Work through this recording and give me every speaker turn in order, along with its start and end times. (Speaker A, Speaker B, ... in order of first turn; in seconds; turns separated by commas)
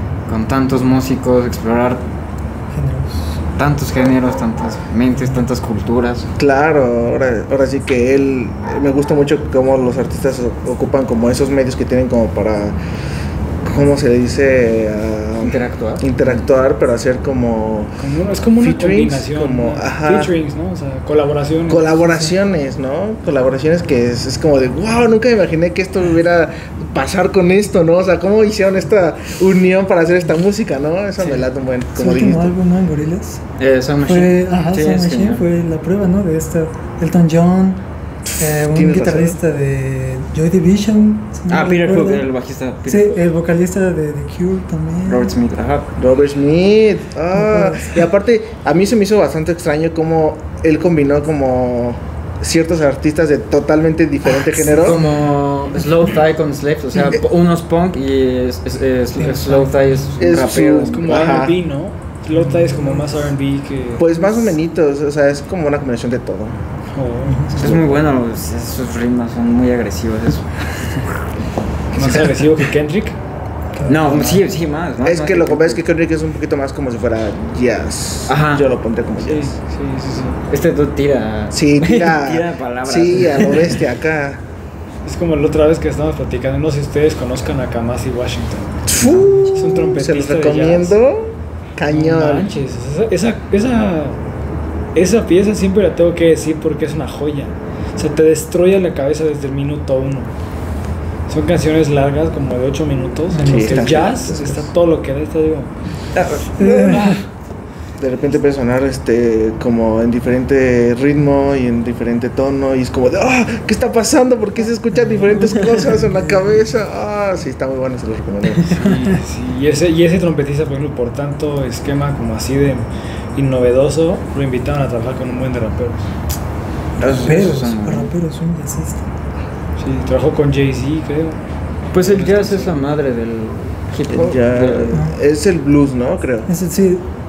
Speaker A: 0.3-2.0, Speaker B: 2.7-3.2, Speaker A: 3.6-6.3, Speaker C: 6.4-12.8, Speaker C: 13.6-17.9, Speaker A: 15.4-16.5, Speaker D: 18.0-22.3, Speaker C: 18.6-20.3, Speaker C: 21.7-32.5, Speaker B: 31.9-33.4, Speaker A: 33.6-35.4, Speaker B: 34.1-37.8, Speaker B: 38.4-42.3, Speaker C: 38.4-39.4, Speaker A: 41.5-43.2, Speaker B: 42.8-45.3, Speaker A: 45.0-45.9, Speaker C: 46.0-55.0, Speaker B: 47.3-48.0, Speaker A: 54.6-61.2, Speaker B: 59.2-60.1, Speaker C: 60.2-61.6, Speaker D: 60.8-64.1, Speaker B: 62.4-63.1, Speaker C: 64.0-66.6, Speaker D: 66.9-67.6, Speaker B: 67.3-67.8, Speaker C: 67.6-68.0, Speaker A: 67.6-71.1, Speaker D: 71.9-73.2, Speaker B: 73.7-74.4, Speaker A: 73.8-75.8, Speaker D: 74.1-74.3, Speaker C: 75.0-79.5, Speaker A: 78.3-78.7, Speaker D: 79.2-80.4, Speaker A: 80.5-83.8, Speaker C: 81.5-84.4, Speaker D: 85.0-91.0, Speaker C: 88.9-92.5, Speaker B: 89.0-89.9, Speaker D: 91.9-94.2, Speaker D: 94.9-100.3, Speaker D: 101.3-105.7, Speaker B: 103.3-103.9, Speaker C: 103.4-104.7, Speaker A: 106.2-106.8, Speaker B: 106.6-107.2, Speaker C: 106.6-107.2, Speaker C: 108.0-118.7, Speaker B: 115.0-116.7, Speaker D: 118.7-126.0, Speaker A: 127.0-128.1, Speaker B: 127.1-129.1, Speaker D: 129.8-131.4, Speaker A: 131.9-135.0, Speaker D: 131.9-132.8, Speaker C: 134.1-136.5, Speaker B: 136.5-137.1